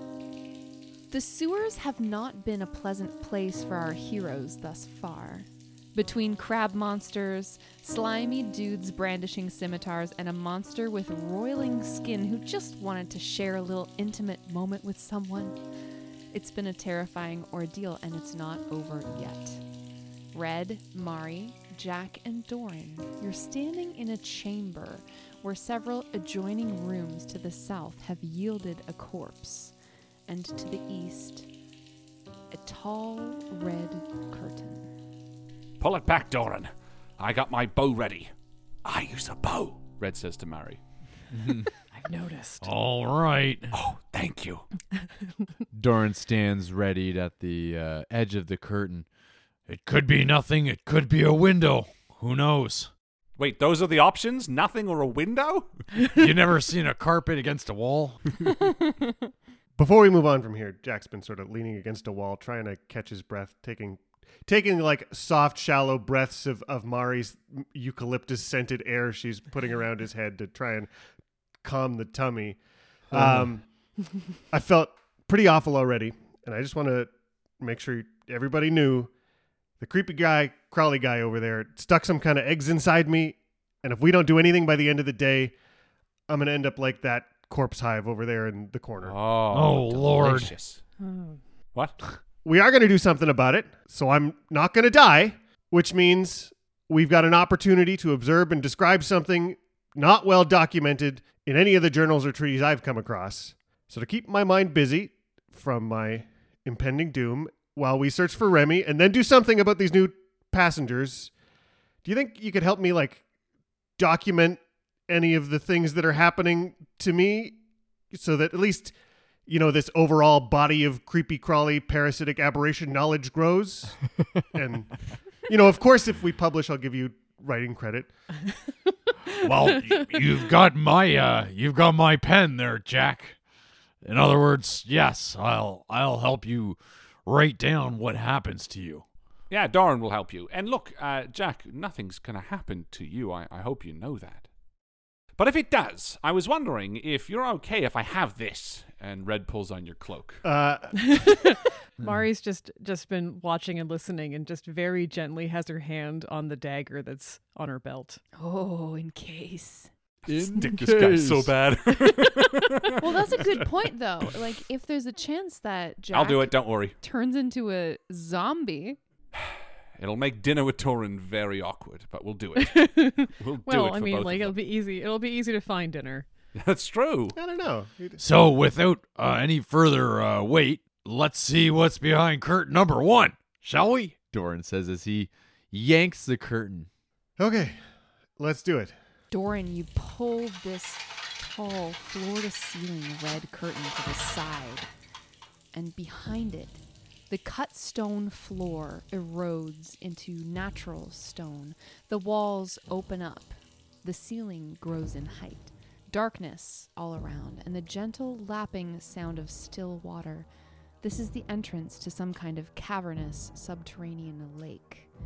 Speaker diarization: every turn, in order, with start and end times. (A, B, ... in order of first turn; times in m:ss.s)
0:01.1-0:15.6 A
0:16.3-0:19.6 A
0:20.3-0:29.7 A
0:30.3-0:31.4 A
0:32.5-0:34.9 A
0:35.8-0:38.3 B
0:38.8-0:40.8 B
0:41.9-0:42.7 C
0:42.6-0:43.7 D
0:43.7-0:44.6 B
0:45.7-0:49.0 E
0:49.7-0:52.9 D
0:53.4-0:55.7 B
0:56.1-0:58.2 D
0:58.6-0:59.1 A
0:59.8-1:10.9 F
1:11.6-1:12.6 F
1:13.1-1:13.9 F
1:14.5-1:19.1 F
1:19.8-1:25.5 F
1:26.3-1:29.2 F
1:29.0-1:30.8 B
1:29.5-1:30.5 D
1:31.0-1:31.4 C
1:31.7-1:32.0 B
1:32.4-1:51.3 F
1:52.0-1:53.2 F
1:54.0-1:57.6 F
1:58.1-1:58.9 F
1:59.5-2:08.1 F
2:09.4-2:13.4 D
2:14.0-2:19.0 D
2:19.5-2:24.5 B
2:25.4-2:30.4 B
2:30.4-2:31.2 F
2:31.0-2:38.2 C
2:38.4-2:39.9 A
2:40.2-2:43.6 B
2:40.3-2:41.5 D
2:43.0-2:49.0 A
2:46.1-2:47.0 B
2:49.3-2:54.6 B
2:52.6-2:56.3 C
2:56.5-2:57.4 B
2:57.3-2:58.2 F
2:58.2-3:04.2 D
3:04.2-3:06.9 E
3:07.4-3:07.8 F
3:08.4-3:08.9 F
3:09.3-3:14.9 A
3:15.7-3:30.5 A
3:31.0-3:35.1 A